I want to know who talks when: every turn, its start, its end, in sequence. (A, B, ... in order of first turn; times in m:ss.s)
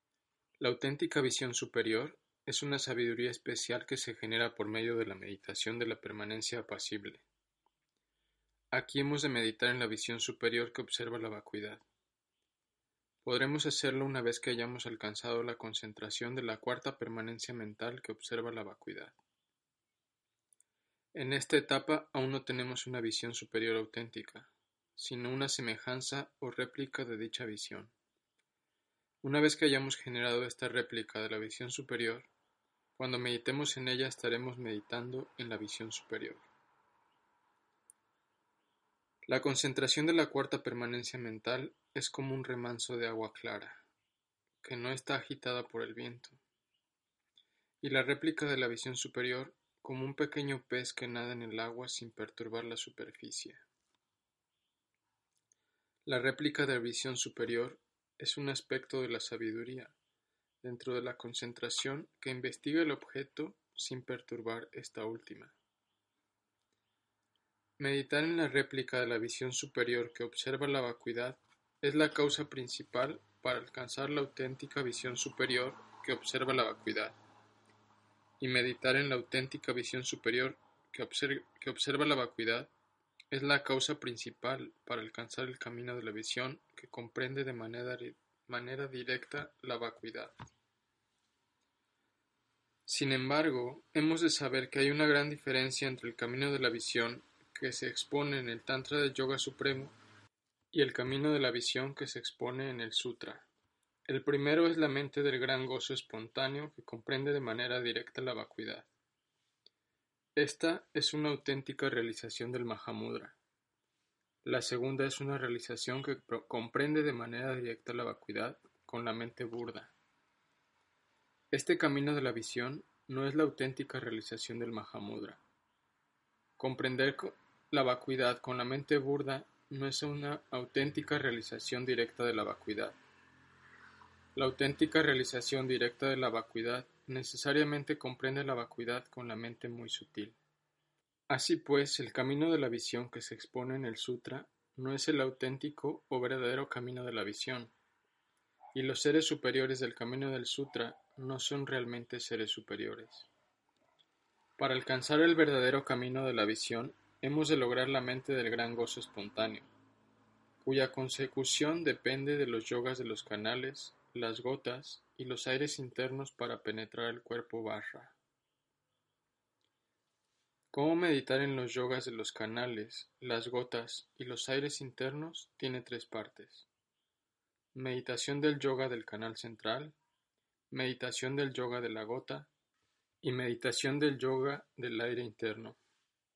0:00.6-0:07.2 A
0:08.7-0:11.8 A
0:13.2-0:19.2 A
0:21.1-0:27.9 A
0:29.2-0:32.3 A
0:33.0-0:36.5 A
0:39.3-0:43.8 A
0:44.6-0:46.4 A
0:47.8-0:53.6 A
0:56.0-1:00.0 A
1:00.6-1:05.6 A
1:07.8-1:17.2 A
1:18.4-1:22.7 A
1:23.3-1:30.3 A
1:32.9-1:39.9 A
1:40.7-1:43.5 A
1:44.1-1:48.9 A
1:50.4-1:53.4 A
1:54.4-1:59.9 A
2:01.5-2:05.4 A
2:06.6-2:13.0 A
2:14.4-2:20.4 A
2:21.3-2:27.7 A
2:28.7-2:33.3 A
2:34.6-2:39.7 A
2:40.6-2:48.2 A
2:50.7-2:56.7 A
2:57.7-3:00.0 A
3:00.7-3:02.5 A
3:03.2-3:05.8 A